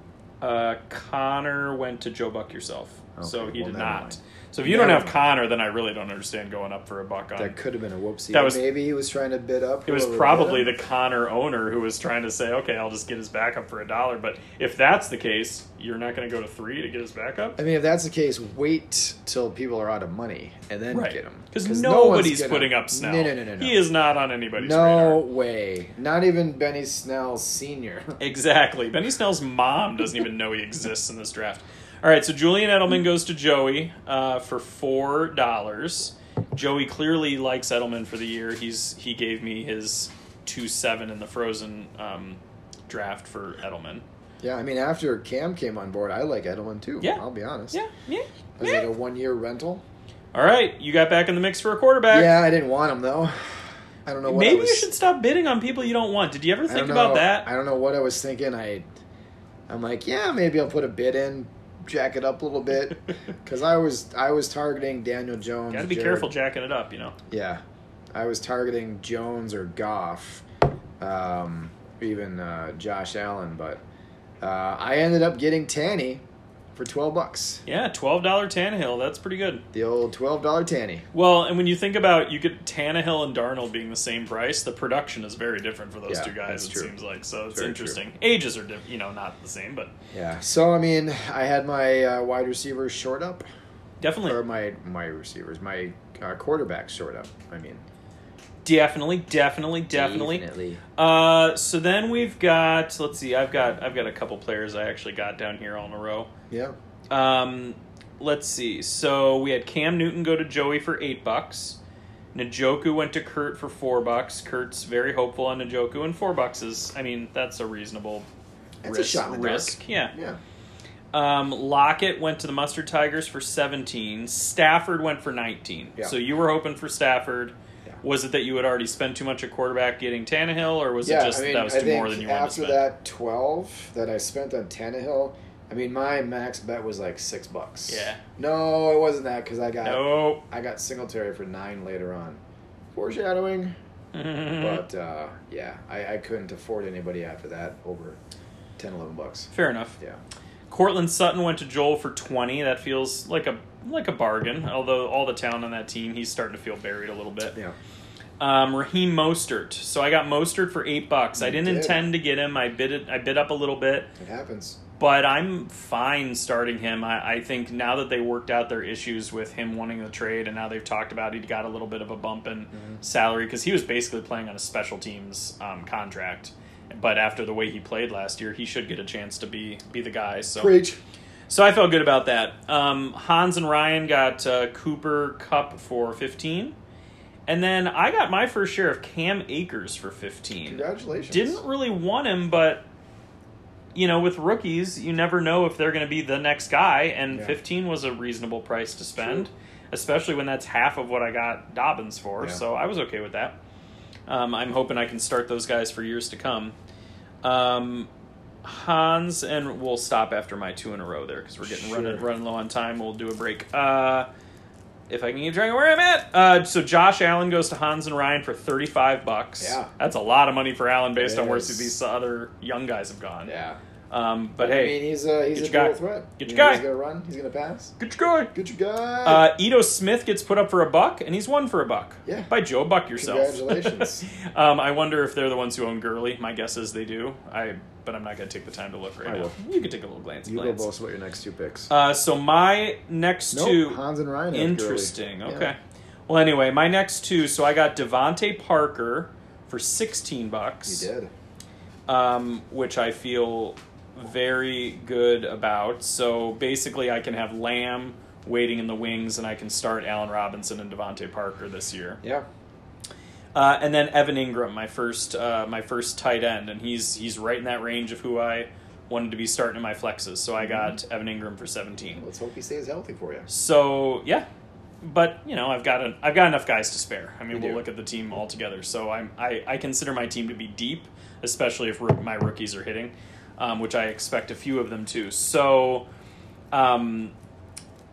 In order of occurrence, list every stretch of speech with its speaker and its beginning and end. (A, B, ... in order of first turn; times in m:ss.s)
0:00.4-0:07.6 A
0:03.2-0:05.2 B
0:07.4-0:10.7 B
0:08.3-0:08.6 A
0:09.9-0:17.6 A
0:17.6-0:23.8 B
0:20.9-0:25.2 A
0:24.6-0:28.2 B
0:28.2-0:44.0 A
0:44.4-0:47.8 B
0:47.0-0:48.8 A
0:48.6-0:49.8 B
0:50.3-0:52.4 A
0:52.1-0:54.9 B
0:54.2-0:57.5 A
0:56.7-0:58.8 B
0:59.7-1:06.3 B
1:05.7-1:07.1 A
1:07.3-1:07.6 B
1:08.1-1:10.4 B
1:11.0-1:13.8 B
1:14.4-1:16.2 B
1:16.7-1:17.6 B
1:17.6-1:19.6 A
1:19.7-1:21.0 B
1:21.1-1:29.9 A
1:26.1-1:26.9 B
1:27.5-1:28.0 B
1:30.1-1:33.4 B
1:34.0-1:34.4 A
1:34.2-1:37.8 B
1:38.6-1:40.4 A
1:39.9-1:40.8 B
1:41.0-1:46.3 A
1:46.5-1:46.8 B
1:47.1-1:51.8 A
1:52.3-1:58.3 A
1:58.8-2:00.4 B
1:58.8-2:00.1 A
2:01.1-2:12.8 A
2:11.0-2:22.4 B
2:17.9-2:18.2 A
2:19.8-2:20.4 A
2:22.9-2:23.7 B
2:24.1-2:24.8 A
2:24.6-2:28.2 B
2:28.8-2:30.2 B
2:29.5-2:30.0 A
2:30.7-2:37.6 A
2:38.4-2:44.1 A
2:41.4-2:42.1 B
2:44.2-2:44.8 B
2:45.0-3:00.8 A
2:52.7-2:53.0 B
3:00.6-3:01.0 B
3:01.5-3:06.8 A
3:07.5-3:12.8 A
3:10.6-3:11.6 B
3:13.9-3:23.6 A
3:17.3-3:17.6 B
3:19.2-3:19.4 B
3:24.3-3:26.8 A
3:27.4-3:28.1 A
3:28.6-3:34.3 A
3:31.7-3:32.2 B
3:35.1-3:43.5 A
3:39.6-3:39.9 B
3:41.2-3:41.9 B
3:43.4-3:43.8 B
3:44.1-3:45.0 A
3:44.6-3:48.0 B
3:45.5-3:46.8 A
3:48.0-3:48.5 A
3:48.5-3:49.5 B
3:49.2-4:00.9 A
3:52.2-3:52.5 B
3:53.2-3:54.3 B
3:59.2-3:59.6 B
4:00.4-4:01.9 B
4:01.9-4:04.0 A
4:03.5-4:05.7 B
4:04.5-4:11.1 A
4:10.8-4:11.3 B
4:12.1-4:22.2 A
4:22.2-4:22.5 B
4:23.5-4:32.2 A
4:30.6-4:31.0 B
4:32.0-4:33.5 B
4:33.5-4:34.5 A
4:35.0-4:46.1 A
4:37.5-4:37.8 B
4:46.7-4:47.3 A